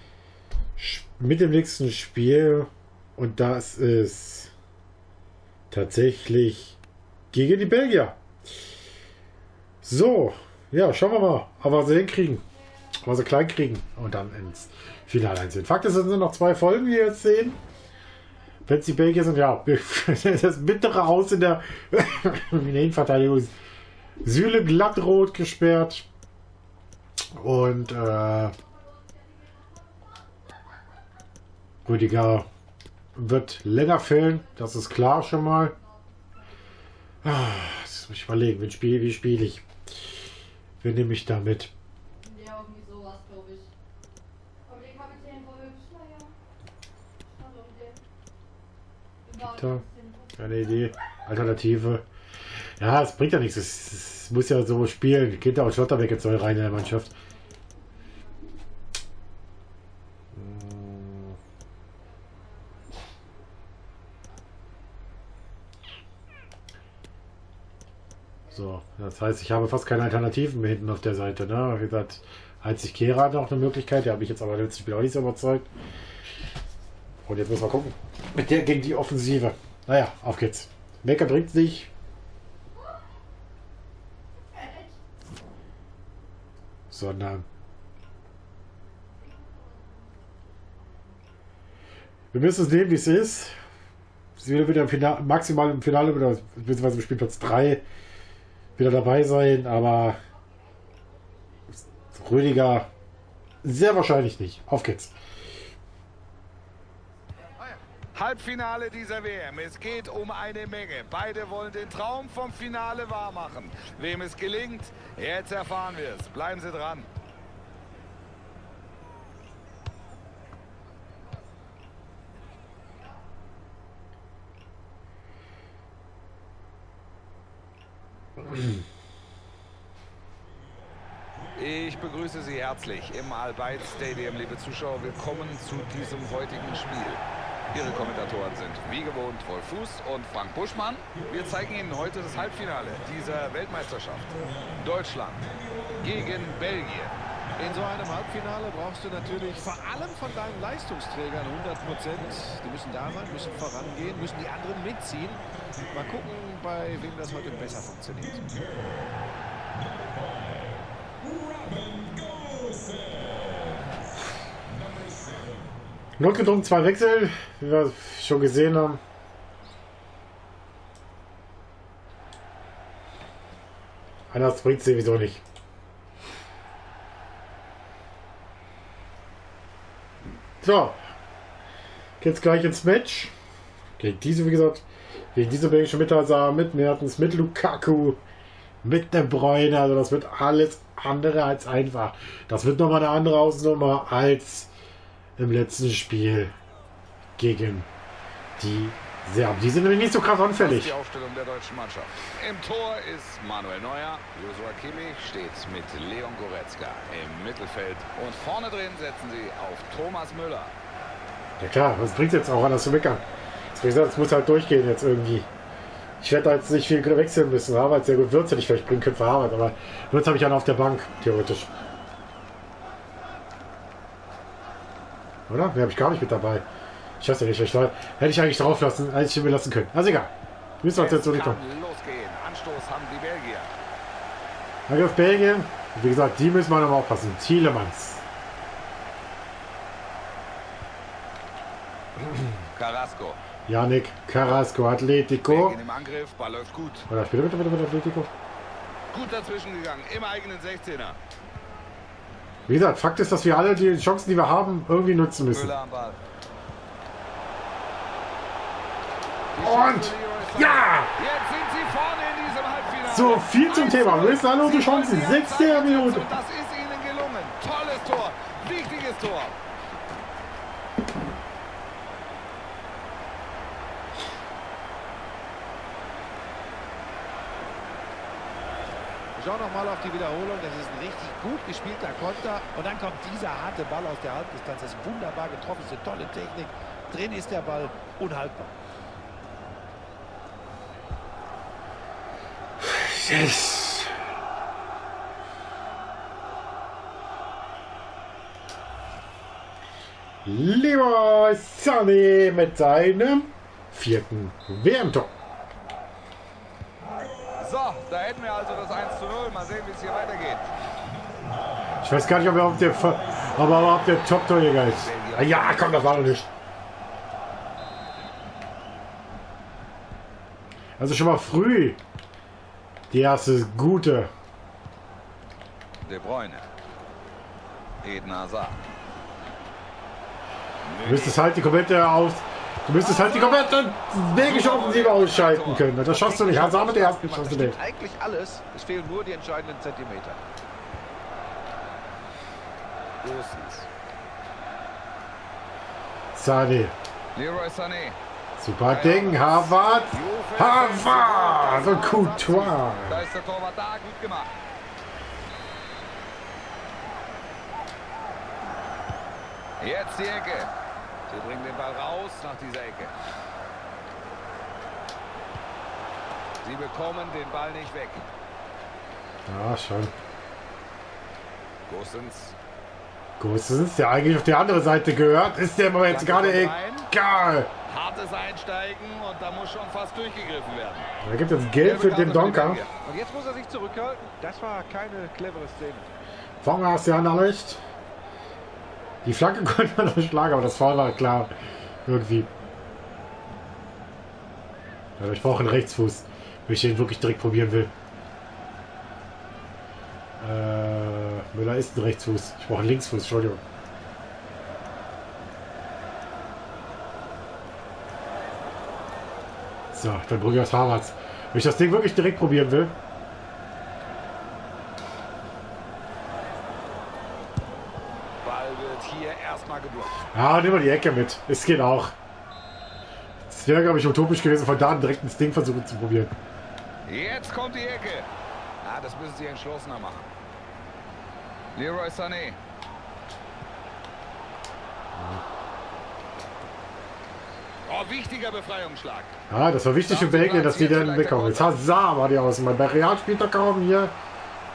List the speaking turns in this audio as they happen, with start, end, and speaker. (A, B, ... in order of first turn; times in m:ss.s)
0:00.8-0:04.5 A
0:05.7-0:06.8 A
0:07.3-0:08.2 A
0:09.8-0:12.4 A
0:13.0-0:17.6 A
0:18.7-0:23.5 A
0:24.2-0:26.1 A
0:27.4-0:28.5 A
0:31.9-0:32.5 A
0:33.2-0:35.8 A
0:37.2-0:39.7 A
0:40.8-0:41.7 A
0:42.3-0:43.7 B
0:44.7-0:46.3 B
0:47.4-0:48.0 B
0:49.4-0:52.0 A
0:52.8-0:57.1 A
1:00.4-1:01.4 A
1:08.5-1:15.7 A
1:17.3-1:21.9 A
1:26.9-1:27.4 A
1:32.3-1:33.6 A
1:34.4-1:37.8 A
1:38.8-1:40.2 A
1:41.9-1:42.9 A
1:43.6-1:45.1 A
1:48.1-1:57.1 C
2:11.6-2:25.5 C
2:26.0-2:27.2 C
2:27.6-2:38.5 D
2:46.2-2:49.0 A
2:54.3-2:55.4 A
3:00.6-3:01.0 A
3:02.2-3:03.3 A
3:04.0-3:08.2 A
3:08.8-3:14.7 A
3:15.4-3:16.5 A
3:17.4-3:17.9 A
3:18.6-3:21.0 A
3:20.6-3:30.7 C
3:31.6-3:35.5 A
3:36.2-3:41.7 A
3:45.5-3:46.7 A
3:47.2-3:51.6 A
3:50.9-3:53.7 C
3:54.9-3:58.2 A
4:02.8-4:03.4 C
4:03.7-4:05.8 A
4:05.4-4:07.1 C
4:07.1-4:08.3 A
4:09.1-4:11.2 C
4:12.7-4:15.7 A
4:15.5-4:16.2 C
4:19.5-4:29.6 C
4:19.6-4:21.1 A
4:23.1-4:26.3 A
4:39.4-4:48.7 D
4:52.8-4:54.1 A
5:00.4-5:05.3 A
5:07.6-5:10.7 C
5:12.0-5:16.5 A
5:14.8-5:16.4 C
5:21.0-5:22.0 A
5:23.1-5:24.3 A
5:26.0-5:26.6 C
5:28.0-5:28.8 C
5:30.8-5:31.4 C
5:31.0-5:37.8 A
5:33.0-5:33.6 D
5:34.4-5:35.9 C
5:36.0-5:40.4 D
5:43.2-5:43.9 C
5:46.4-5:47.0 A
5:47.4-5:48.2 C
5:48.6-5:53.3 A
5:48.9-5:52.0 C
5:51.8-5:52.9 D
5:53.1-5:54.5 C
5:59.8-6:00.7 C
6:01.3-6:03.1 C
6:06.6-6:08.3 C
6:09.5-6:10.1 A
6:11.9-6:12.6 C
6:13.4-6:17.7 A
6:16.1-6:17.1 C
6:17.9-6:21.1 C
6:21.2-6:22.8 A
6:21.8-6:22.9 C
6:23.0-6:26.1 D
6:26.6-6:27.8 A
6:29.2-6:31.5 A
6:32.1-6:32.5 A
6:35.2-6:37.9 A
6:40.4-6:43.6 A
6:49.9-6:53.0 A
6:58.4-7:00.2 C
7:00.3-7:02.1 A
7:03.5-7:06.3 A
7:07.1-7:08.3 C
7:08.8-7:10.3 C
7:11.8-7:12.6 C
7:15.2-7:15.4 A
7:17.9-7:19.3 C
7:19.5-7:24.2 A
7:20.1-7:21.8 C